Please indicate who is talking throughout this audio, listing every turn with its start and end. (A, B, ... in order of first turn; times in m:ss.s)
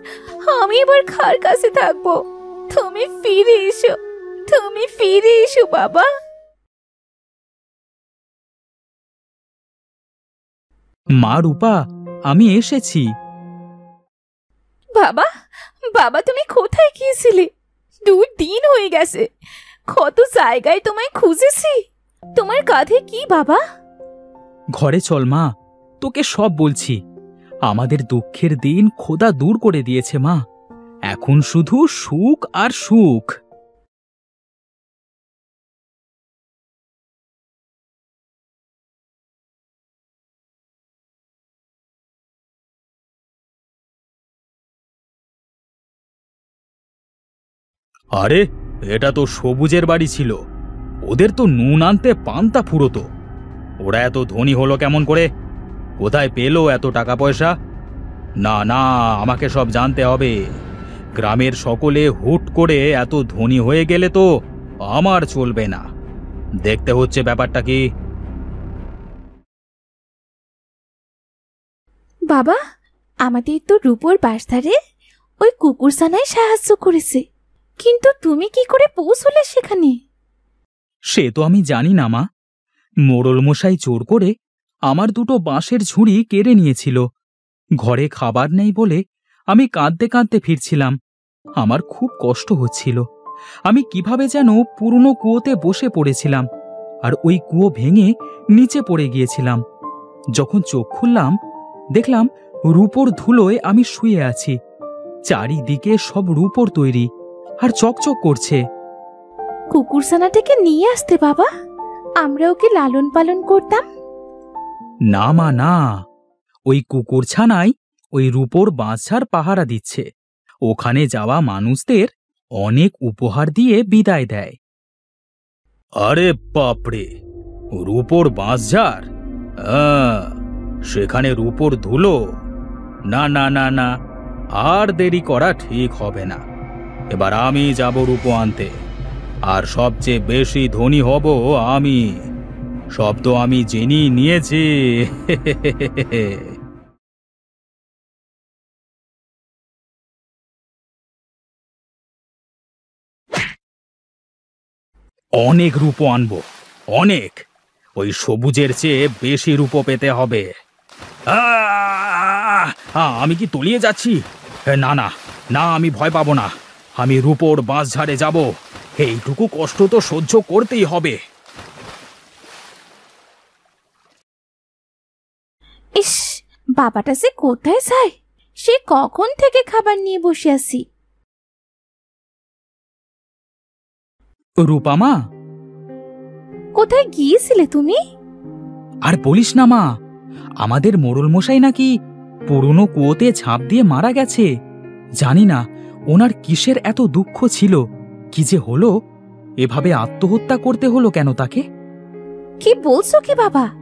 0:00.4-0:02.2 A
0:02.7-0:04.0 A
0:04.5-0:06.1 A
0:11.2-0:11.8 B
0:12.3-0:13.0 B
0:15.0-0:15.3 A
0:15.9-0:17.5 A
0:18.1-0:19.3 A
0:19.9-0:21.8 A
0:22.4-0:23.6 A
0:24.8-0:25.5 B
0:26.0-0:27.0 B
0:27.7-0:30.4 B
0:31.1-0:33.3 B
0:48.2-0:50.3 B
0:51.1-0:53.0 B
0:53.8-0:55.3 B
0:56.0-0:57.5 B
0:58.4-1:00.3 B
1:01.2-1:04.2 B
1:04.9-1:05.8 B
1:06.6-1:07.8 B
1:12.3-1:12.6 A
1:13.2-1:14.7 A
1:15.4-1:17.2 A
1:17.8-1:19.9 A
1:21.1-1:22.2 B
1:23.1-1:24.3 B
1:24.9-1:27.0 B
1:27.8-1:29.0 B
1:29.5-1:31.0 B
1:31.6-1:33.0 B
1:33.7-1:36.4 B
1:37.0-1:39.6 B
1:40.4-1:41.3 B
1:42.0-1:44.5 B
1:45.3-1:47.1 B
1:47.6-1:48.6 B
1:49.7-1:51.5 A
1:52.2-1:53.8 A
1:55.1-1:55.8 B
1:56.7-2:00.0 B
2:00.7-2:04.6 B
2:06.0-2:07.1 B
2:07.8-2:09.1 B
2:09.7-2:10.3 B
2:10.9-2:12.2 B
2:13.1-2:13.9 B
2:14.6-2:16.4 B
2:17.1-2:18.7 B
2:19.5-2:22.0 B
2:23.0-2:26.5 B
2:35.4-2:36.4 B
2:36.9-2:37.4 B
2:38.0-2:40.5 B
2:41.3-2:48.5 B
2:49.0-2:51.2 B
2:56.8-3:00.8 A
3:04.7-3:05.1 B
3:06.8-3:08.0 A
3:09.1-3:09.8 B
3:10.6-3:11.9 B
3:12.5-3:14.5 B
3:15.2-3:15.6 B
3:16.1-3:17.8 B
3:18.3-3:18.9 B
3:19.6-3:21.6 B
3:22.6-3:23.7 A